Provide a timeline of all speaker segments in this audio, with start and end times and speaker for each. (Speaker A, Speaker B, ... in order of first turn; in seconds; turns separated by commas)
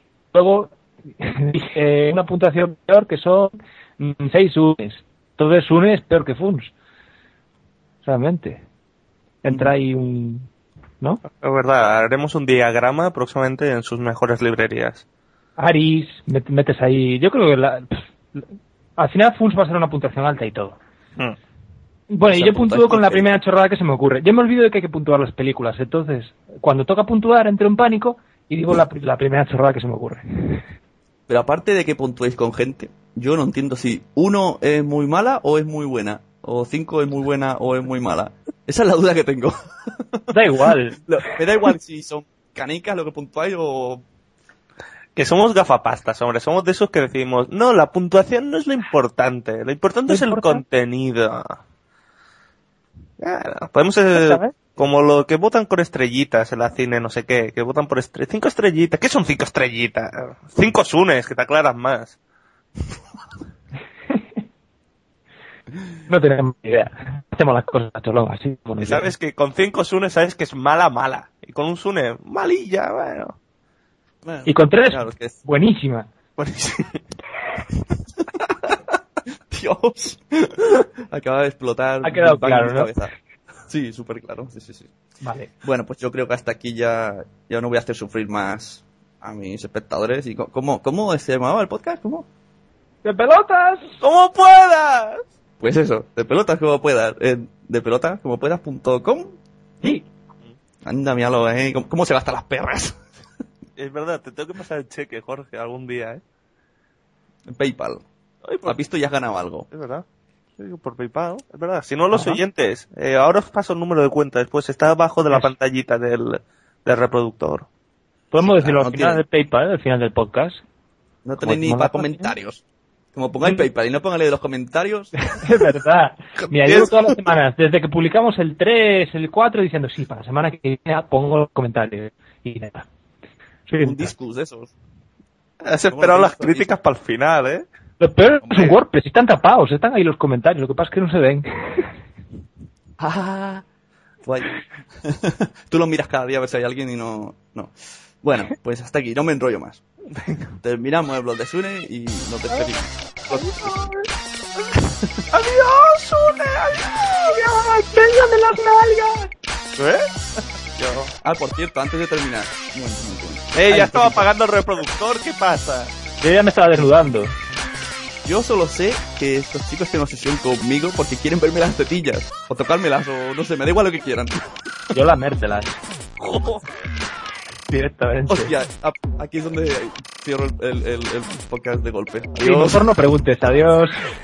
Speaker A: 0.3-6.7, Speaker A: 8.0-8.6, Speaker A: 9.4-10.5, Speaker B: 11.4-15.0, Speaker A: 15.6-18.5, Speaker A: 19.0-20.8, Speaker A: 22.1-30.6, Speaker C: 22.3-23.4, Speaker C: 31.3-40.3, Speaker A: 40.3-41.0, Speaker C: 41.1-44.0, Speaker B: 45.2-51.6, Speaker A: 50.1-50.6, Speaker B: 53.2-62.2, Speaker A: 54.1-54.5, Speaker A: 66.1-69.1, Speaker B: 68.8-73.3, Speaker C: 74.2-75.4, Speaker A: 74.5-76.1, Speaker B: 76.4-77.0, Speaker C: 79.5-83.1, Speaker A: 82.0-82.9, Speaker C: 83.7-84.9, Speaker A: 85.2-85.5, Speaker C: 85.6-92.3, Speaker A: 93.0-94.0, Speaker B: 94.0-95.2, Speaker C: 95.6-99.4, Speaker C: 100.8-103.0, Speaker B: 103.8-106.2, Speaker C: 107.5-108.0, Speaker B: 108.4-108.8, Speaker C: 108.7-109.7, Speaker B: 109.7-110.0, Speaker B: 110.6-117.7, Speaker A: 112.1-112.4, Speaker A: 118.3-120.6, Speaker C: 118.4-119.2, Speaker C: 121.2-122.6, Speaker A: 121.4-122.3, Speaker C: 123.1-125.1, Speaker A: 125.3-132.9, Speaker B: 126.6-126.9, Speaker A: 133.7-134.1, Speaker C: 133.8-134.7, Speaker B: 135.6-137.7, Speaker C: 135.9-136.7, Speaker A: 138.0-141.9, Speaker C: 143.0-143.6, Speaker C: 144.2-149.8, Speaker B: 150.1-150.5, Speaker C: 150.6-153.9, Speaker A: 153.3-154.1, Speaker C: 154.7-155.2, Speaker B: 155.3-157.4, Speaker A: 157.3-159.3, Speaker B: 159.8-160.1, Speaker B: 160.8-161.1, Speaker C: 161.2-164.2, Speaker B: 163.5-165.9, Speaker A: 166.2-167.3, Speaker C: 168.2-174.4, Speaker A: 174.9-175.8, Speaker B: 176.2-176.6, Speaker A: 177.7-178.5, Speaker C: 178.3-182.9, Speaker A: 182.4-184.1